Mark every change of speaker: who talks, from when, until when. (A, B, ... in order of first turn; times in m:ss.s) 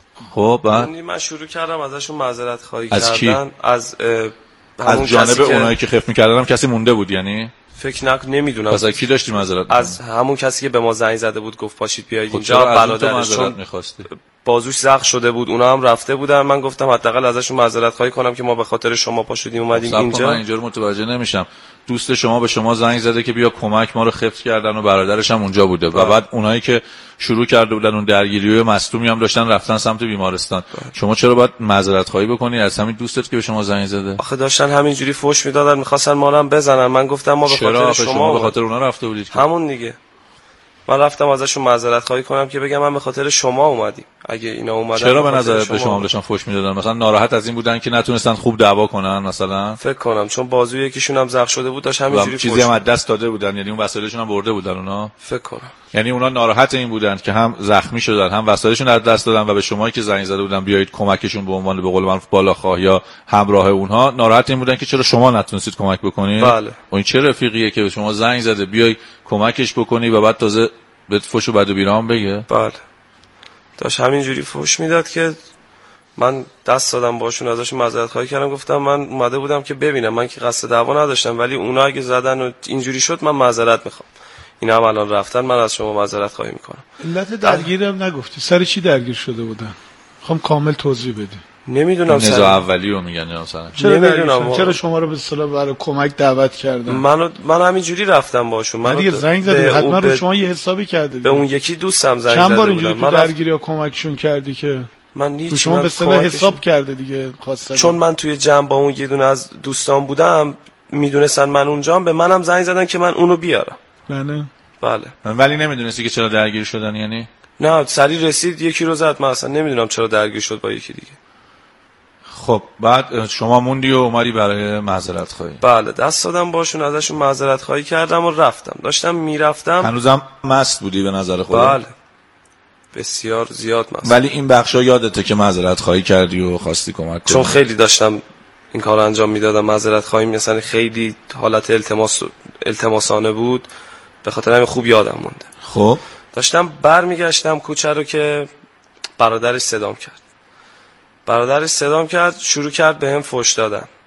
0:00.2-0:00.9 A
0:00.7-0:05.7 B
0:02.9-0:03.4 A
0:04.9-0:07.5 A
0:07.8-0:09.0 B
0:08.7-0:10.0 A
0:09.7-0:13.6 B
0:12.3-0:14.1 A
0:14.1-0:20.4 B
0:19.7-0:34.2 A
0:34.2-0:38.5 B
0:37.4-0:39.5 A
0:39.3-0:40.0 B
0:40.9-0:46.1 B
0:45.0-0:49.8 A
0:49.8-0:52.8 B
0:52.1-0:55.1 A
0:55.2-0:55.7 B
0:55.9-1:12.5 A
1:06.4-1:06.8 B
1:12.5-1:12.8 B
1:13.8-1:15.4 B
1:16.2-1:24.0 B
1:24.6-1:26.8 B
1:27.0-1:31.4 C
1:27.4-1:27.7 B
1:31.6-1:32.6 B
1:32.1-1:33.8 A
1:33.7-1:37.0 C
1:33.8-1:34.8 B
1:36.9-1:40.2 B
1:38.8-1:41.4 C
1:41.2-1:43.3 B
1:42.3-1:44.9 C
1:45.1-1:46.6 B
1:45.5-1:48.0 C
1:47.7-1:53.8 B
1:54.1-1:54.5 C
1:54.8-1:55.1 B
1:55.2-1:57.3 A
1:57.6-2:01.2 B
2:02.3-2:05.6 A
2:05.6-2:09.9 B
2:09.8-2:11.8 A
2:11.5-2:11.9 B
2:12.9-2:14.2 B
2:14.0-2:17.6 A
2:17.3-2:18.2 B
2:18.7-2:23.7 B
2:24.2-2:25.5 B
2:25.6-2:26.0 A
2:26.3-2:28.5 B
2:29.2-2:30.2 B
2:31.2-2:33.9 B